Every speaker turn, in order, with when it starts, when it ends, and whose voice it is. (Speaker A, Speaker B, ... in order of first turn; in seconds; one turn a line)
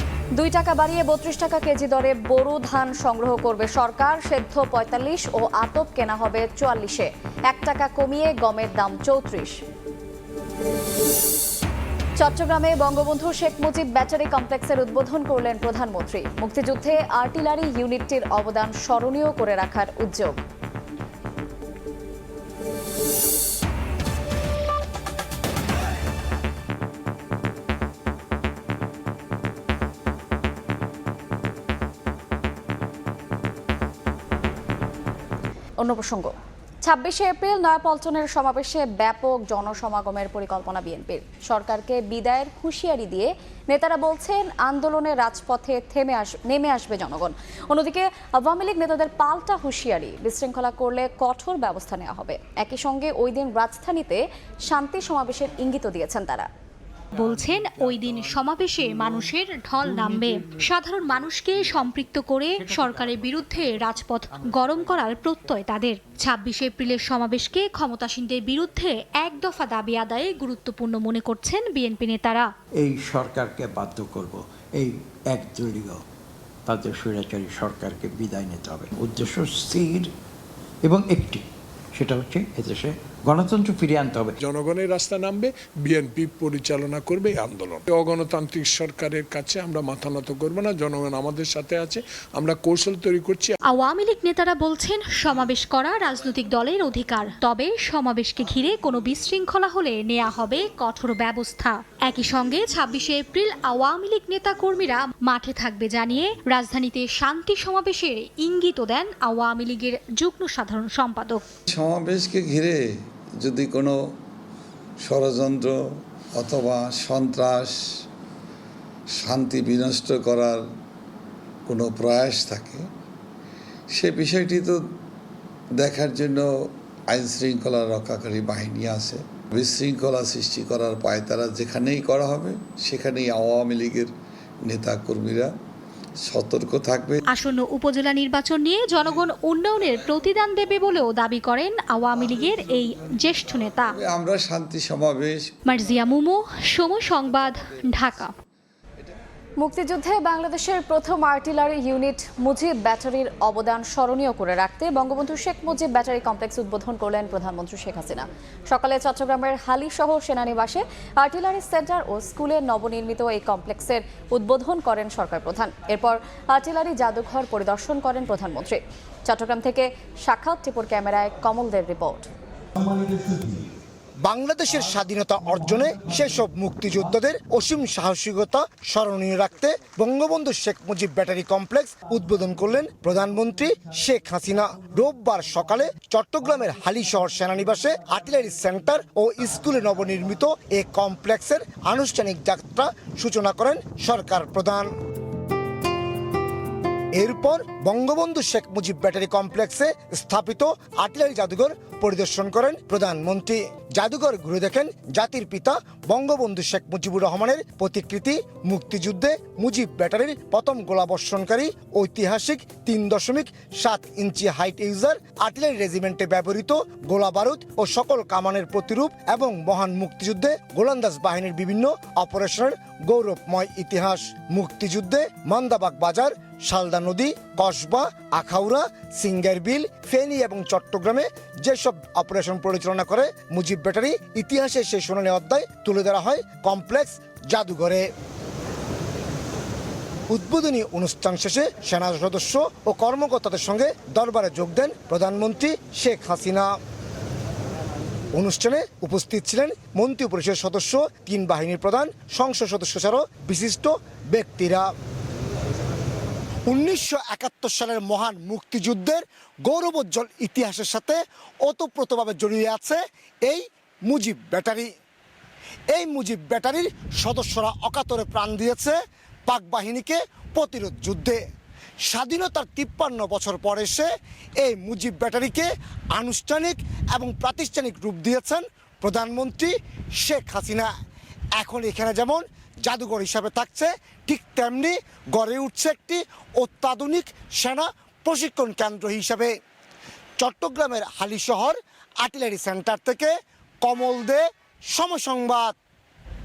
Speaker A: 0.3-9.6
Speaker A: 12.2-20.4
Speaker A: 35.8-36.3
Speaker A: 36.8-56.5
Speaker B: 57.2-72.5
Speaker C: 72.8-76.0
Speaker C: 76.7-80.1
Speaker C: 80.8-84.3
Speaker D: 84.4-93.5
Speaker B: 93.7-111.4
Speaker E: 111.7-112.8
Speaker E: 113.4-114.2
Speaker E: 115.0-115.8
Speaker E: 116.4-118.0
Speaker E: 119.1-120.6
Speaker E: 121.7-122.8
Speaker E: 123.9-124.8
Speaker E: 125.8-134.1
Speaker E: 134.7-135.5
Speaker E: 136.2-137.2
Speaker B: 137.3-143.8
Speaker E: 143.9-145.5
Speaker B: 145.7-148.3
Speaker A: 149.6-172.3
Speaker F: 173.0-173.4
Speaker F: 174.2-194.9
Speaker F: 197.1-238.1
Speaker F: 240.3-246.7
Speaker F: 248.3-254.9
Speaker F: 256.7-264.9
Speaker F: 265.9-271.4
Speaker F: 272.1-280.9
Speaker F: 281.6-289.5
Speaker F: 290.4-295.7